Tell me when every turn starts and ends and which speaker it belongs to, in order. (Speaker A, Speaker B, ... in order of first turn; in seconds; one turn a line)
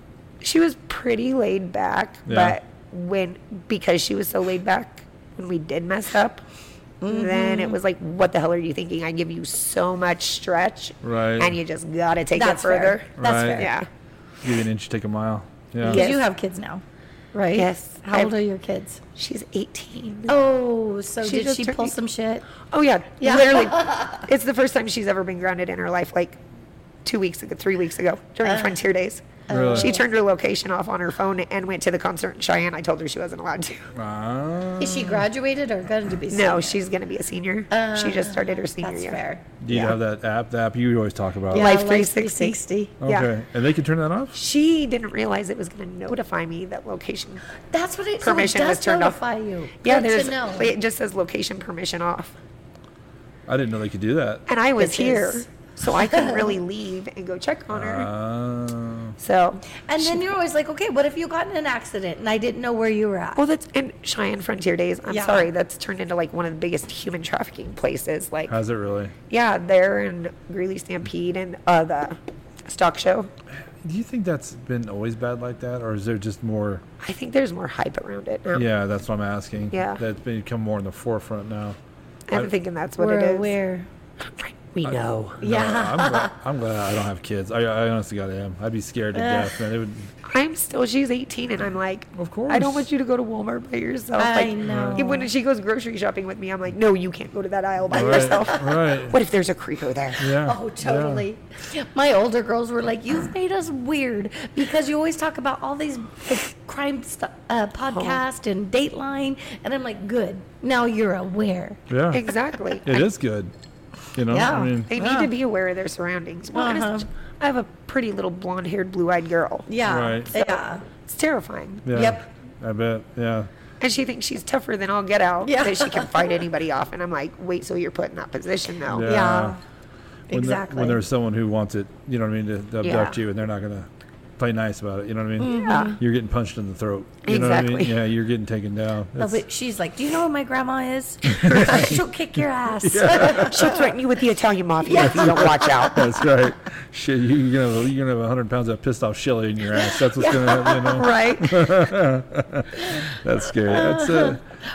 Speaker A: 0.4-6.4
Speaker B: 2.3-2.6
Speaker C: 7.0-7.8
Speaker A: 7.1-13.9
Speaker B: 11.0-11.6
Speaker C: 12.3-13.7
Speaker B: 13.2-13.7
Speaker B: 14.4-16.1
Speaker C: 15.8-16.8
Speaker A: 15.8-16.2
Speaker C: 17.3-19.0
Speaker A: 17.5-18.3
Speaker A: 19.2-20.3
Speaker C: 20.3-22.5
Speaker A: 21.2-21.9
Speaker A: 22.7-26.4
Speaker C: 23.2-24.2
Speaker A: 27.1-33.9
Speaker C: 28.4-28.8
Speaker C: 29.5-30.0
Speaker B: 29.5-29.9
Speaker B: 33.9-35.3
Speaker C: 34.8-36.8
Speaker A: 36.3-40.0
Speaker C: 37.7-39.4
Speaker B: 39.6-41.7
Speaker C: 41.5-42.9
Speaker A: 41.5-43.3
Speaker B: 43.0-44.4
Speaker A: 44.3-47.4
Speaker C: 47.7-50.7
Speaker A: 48.2-49.2
Speaker A: 49.8-52.4
Speaker B: 53.5-54.5
Speaker A: 54.5-58.1
Speaker C: 54.8-56.6
Speaker B: 57.7-59.2
Speaker A: 59.2-60.3
Speaker C: 59.9-63.4
Speaker A: 63.4-68.6
Speaker C: 65.1-65.5
Speaker B: 68.5-69.1
Speaker A: 69.3-73.3
Speaker B: 73.8-76.8
Speaker A: 77.0-78.7
Speaker B: 78.5-81.8
Speaker A: 79.7-80.0
Speaker A: 82.3-83.5
Speaker C: 83.0-83.9
Speaker A: 84.2-85.4
Speaker B: 84.8-90.1
Speaker C: 85.4-86.3
Speaker C: 89.1-89.6
Speaker A: 90.2-100.3
Speaker B: 92.2-92.9
Speaker C: 94.2-95.3
Speaker B: 94.6-95.1
Speaker B: 97.9-99.2
Speaker C: 98.0-98.6
Speaker B: 100.2-101.2
Speaker C: 100.4-111.8
Speaker A: 107.9-108.2
Speaker B: 111.9-112.2
Speaker A: 112.1-113.0
Speaker B: 112.8-113.5
Speaker B: 114.2-114.9
Speaker C: 114.3-115.3
Speaker A: 114.9-119.7
Speaker C: 116.5-117.1
Speaker C: 119.7-120.8
Speaker B: 119.8-120.3
Speaker A: 120.4-121.9
Speaker B: 121.8-123.5
Speaker C: 121.9-122.2
Speaker A: 123.8-129.1
Speaker C: 125.5-126.4
Speaker B: 128.9-129.6
Speaker C: 129.0-129.6
Speaker C: 130.3-131.0
Speaker B: 130.3-139.4
Speaker A: 132.8-133.2
Speaker C: 135.4-136.0
Speaker A: 135.5-136.0
Speaker A: 137.2-137.9
Speaker C: 139.2-143.9
Speaker B: 141.2-142.0
Speaker A: 141.6-141.9
Speaker B: 142.8-143.8
Speaker A: 143.3-146.1
Speaker C: 144.8-146.1
Speaker B: 145.0-154.4
Speaker C: 149.8-151.1
Speaker A: 150.9-151.6
Speaker C: 153.6-154.4